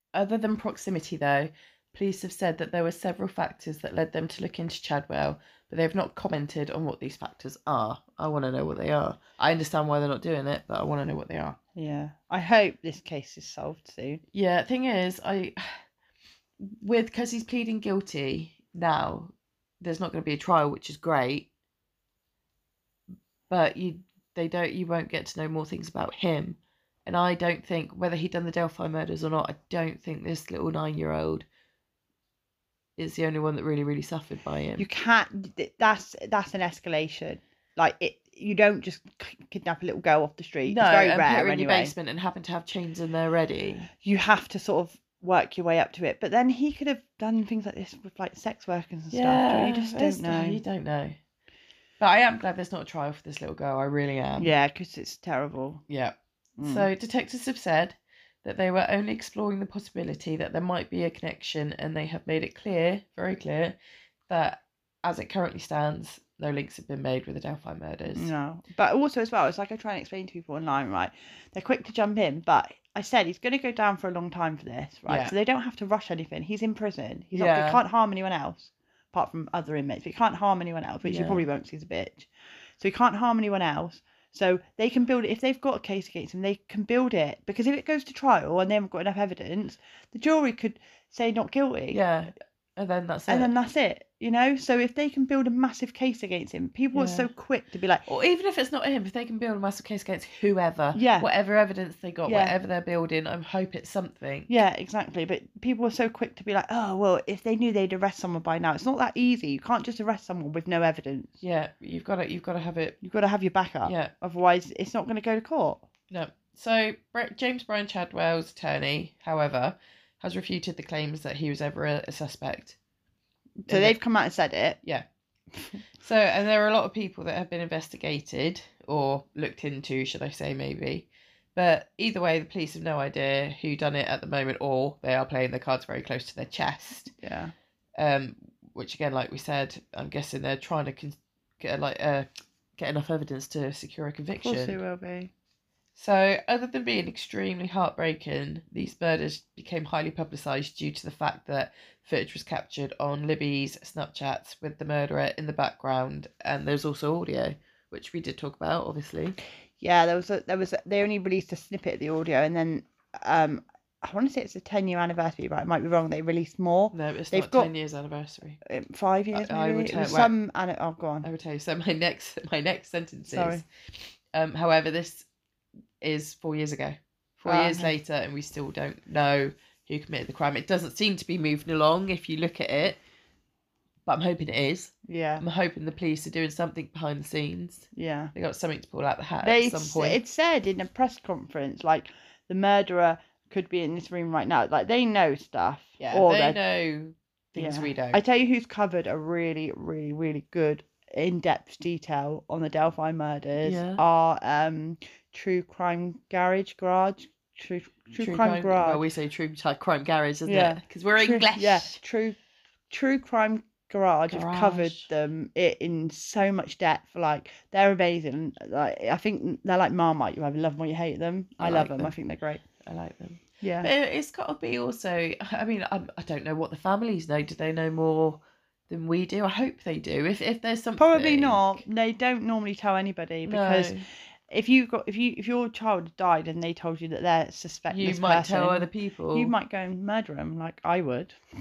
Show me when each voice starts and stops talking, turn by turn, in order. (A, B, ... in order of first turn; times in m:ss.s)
0:00.1-0:11.6 A
0:11.8-0:14.2 B
0:14.3-0:15.8 A
0:16.6-0:21.5 A
0:23.5-0:31.5 A
0:33.0-0:34.9 A
0:34.8-0:41.9 B
0:40.7-0:43.9 A
0:44.0-0:50.6 B
0:49.1-0:51.2 A
0:52.0-0:54.5 A
0:54.4-0:55.8 B
0:55.9-1:03.8 A
0:56.6-0:56.9 B
1:04.3-1:08.3 A
1:08.2-1:32.0 B
1:15.1-1:15.3 A
1:17.3-1:17.8 A
1:21.0-1:21.4 A
1:31.9-1:33.5 A
1:33.3-1:38.1 B
1:36.9-1:37.3 A
1:38.1-1:44.5 A
1:40.9-1:41.3 B
1:42.3-1:42.6 B
1:44.5-1:51.3 B
1:51.4-1:53.0 A
1:53.0-1:55.8 B
1:53.8-1:54.1 A
1:56.1-2:02.8 A
2:03.6-2:04.8 B
2:03.7-2:04.0 A
2:05.9-2:17.1 A
2:17.2-2:17.5 B
2:18.0-2:24.8 A
2:24.4-2:25.3 B
2:26.0-2:39.4 A
2:39.8-2:47.7 B
2:46.9-2:48.6 A
2:48.6-2:51.3 B
2:49.3-2:50.3 A
2:51.2-2:53.6 A
2:53.3-2:53.6 B
2:54.3-2:55.3 A
2:56.0-3:03.0 A
2:57.4-2:58.0 B
3:04.1-3:10.2 A
3:05.1-3:05.4 B
3:07.9-3:08.3 B
3:09.4-3:16.6 B
3:16.0-3:18.2 A
3:17.6-3:29.0 B
3:23.6-3:24.0 A
3:28.2-3:32.0 A
3:30.5-3:32.4 B
3:32.9-3:42.6 B
3:34.3-3:35.1 A
3:41.6-3:42.1 A
3:42.8-3:51.8 A
3:43.6-3:43.9 B
3:51.0-4:01.4 B
3:53.4-3:54.1 A
3:57.9-3:59.5 A